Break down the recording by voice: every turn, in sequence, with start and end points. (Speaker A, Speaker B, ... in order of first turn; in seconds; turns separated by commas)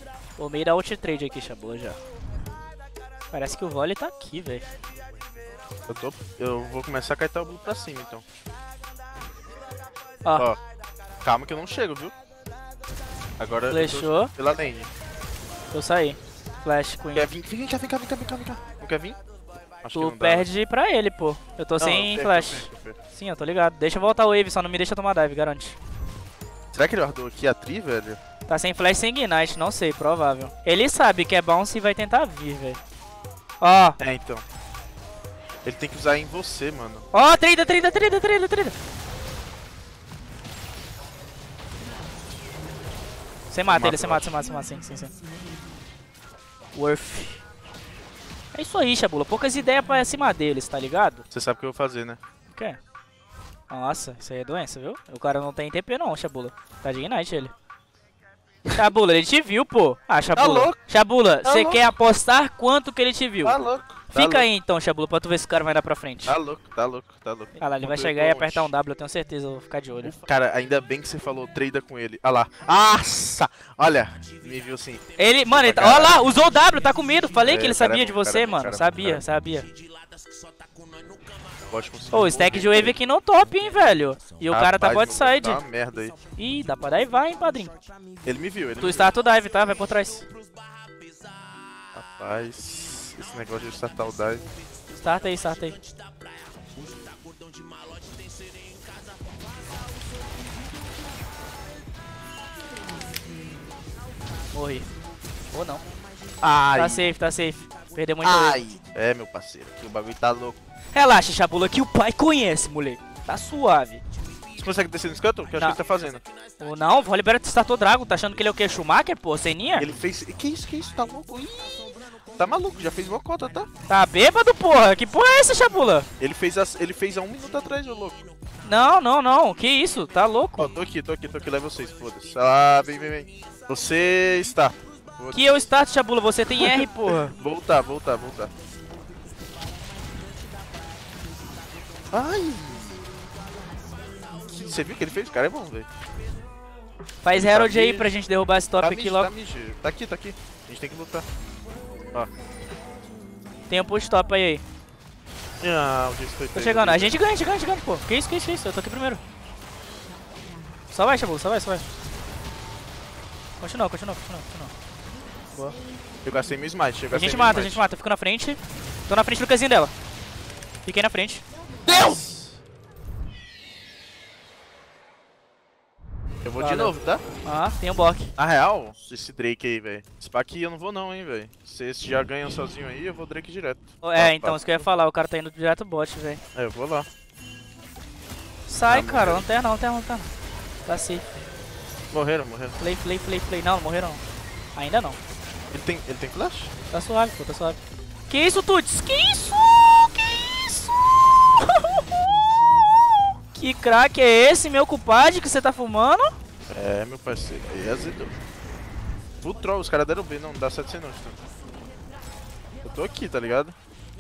Speaker A: 0.4-2.0, Speaker A: 3.3-4.7, Speaker B: 5.9-8.2, Speaker A: 10.2-10.5, Speaker B: 11.2-12.1, Speaker B: 13.4-14.9, Speaker A: 13.7-14.3, Speaker A: 15.7-17.3, Speaker B: 17.1-19.2, Speaker B: 19.8-20.5, Speaker A: 19.9-25.8, Speaker B: 21.8-23.0, Speaker B: 26.7-28.2, Speaker A: 28.5-32.8, Speaker A: 33.6-34.0, Speaker B: 34.0-34.4, Speaker B: 35.6-37.0, Speaker A: 37.1-38.7, Speaker A: 43.5-45.1, Speaker B: 43.6-44.3, Speaker A: 46.7-47.4, Speaker A: 48.5-51.2, Speaker B: 51.3-52.2, Speaker A: 52.5-52.8, Speaker A: 53.7-57.5, Speaker A: 58.8-63.6, Speaker B: 60.4-60.8, Speaker B: 61.4-61.8, Speaker B: 63.4-64.5, Speaker A: 64.1-66.4, Speaker B: 66.3-68.7, Speaker A: 67.6-70.1, Speaker B: 70.0-76.2, Speaker A: 75.2-79.7, Speaker B: 77.4-79.2, Speaker B: 81.7-83.0, Speaker A: 82.1-85.6, Speaker B: 84.5-86.2, Speaker A: 86.4-87.7, Speaker B: 88.2-89.1, Speaker A: 88.8-90.3, Speaker B: 91.9-94.4, Speaker A: 94.9-95.8, Speaker A: 104.5-104.9, Speaker A: 105.5-105.8, Speaker B: 106.4-107.1, Speaker A: 106.7-108.6, Speaker B: 108.2-110.6, Speaker A: 110.9-114.0, Speaker B: 114.5-116.2, Speaker A: 116.6-119.9, Speaker B: 119.8-123.7, Speaker A: 123.9-126.1, Speaker B: 126.2-128.2, Speaker A: 128.6-130.7, Speaker B: 130.6-135.6, Speaker A: 135.3-137.3, Speaker B: 136.5-138.5, Speaker B: 142.1-143.0, Speaker B: 144.5-145.9, Speaker A: 147.2-149.3, Speaker B: 147.3-148.1, Speaker B: 148.8-151.2, Speaker A: 153.7-154.6, Speaker B: 155.6-157.2, Speaker A: 156.5-159.2, Speaker A: 160.9-161.8, Speaker A: 163.6-164.7, Speaker B: 166.2-167.8, Speaker A: 167.1-169.9, Speaker A: 170.8-171.4, Speaker B: 171.8-172.6, Speaker B: 176.4-177.2, Speaker A: 176.6-178.3, Speaker B: 178.4-184.9, Speaker A: 184.0-186.4, Speaker B: 186.5-187.1, Speaker A: 188.7-190.3, Speaker B: 188.9-189.4, Speaker A: 190.8-191.2, Speaker B: 192.1-192.8, Speaker A: 192.8-194.2, Speaker A: 194.7-195.2, Speaker B: 195.7-196.7, Speaker A: 196.9-202.1, Speaker A: 203.5-206.3, Speaker B: 206.7-208.3, Speaker B: 209.4-211.4, Speaker B: 212.8-213.8